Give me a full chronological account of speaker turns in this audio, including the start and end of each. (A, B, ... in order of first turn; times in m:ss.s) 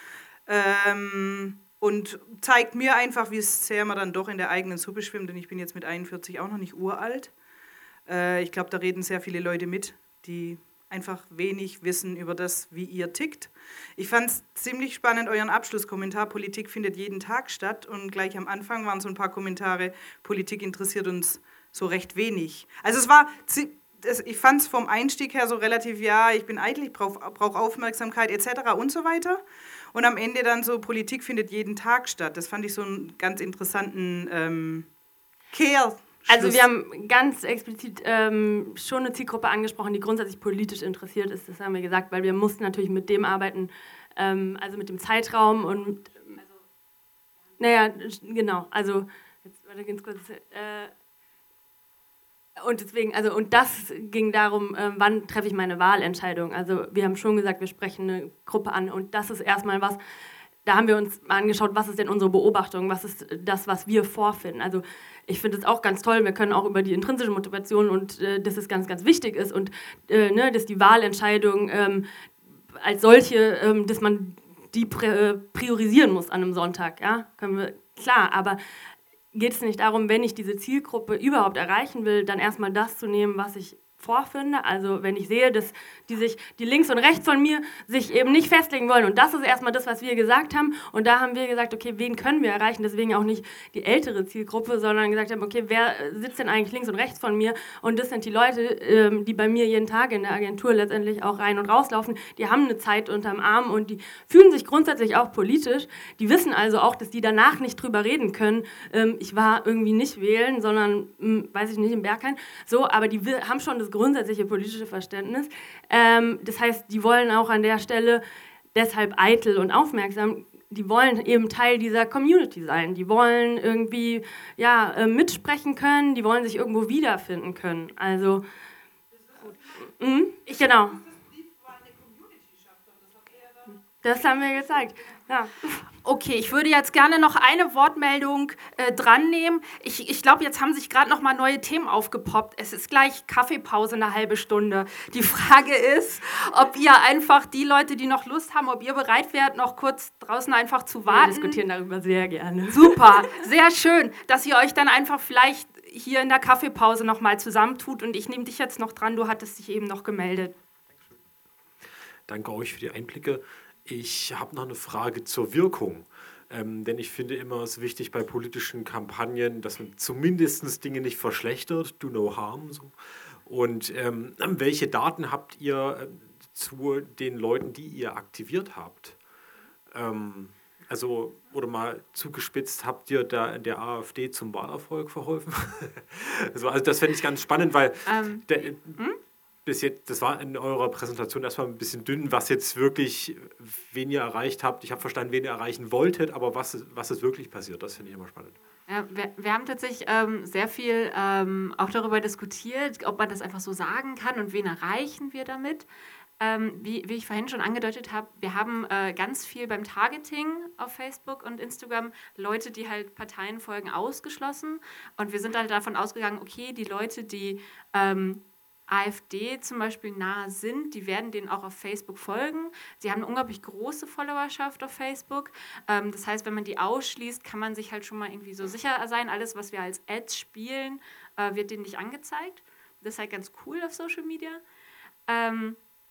0:00.5-0:07.4 A
0:08.1-0:29.4 A
0:29.9-0:34.9 A
0:35.5-0:36.7 A
0:36.3-0:46.4 B
0:47.6-0:50.9 B
0:52.6-1:00.0 B
1:00.6-1:12.0 B
1:12.8-1:18.6 B
1:19.3-1:58.2 B
1:58.8-2:08.4 B
2:09.8-2:11.1 B
2:14.0-2:15.8 B
2:16.0-2:31.6 C
2:31.1-2:33.0 B
2:32.7-2:40.5 C
2:42.3-2:59.2 D
2:59.9-3:09.0 D
3:08.1-3:09.2 E
3:09.6-3:18.6 D
3:18.9-3:25.9 E
3:26.4-3:54.6 E
3:55.3-3:55.8 E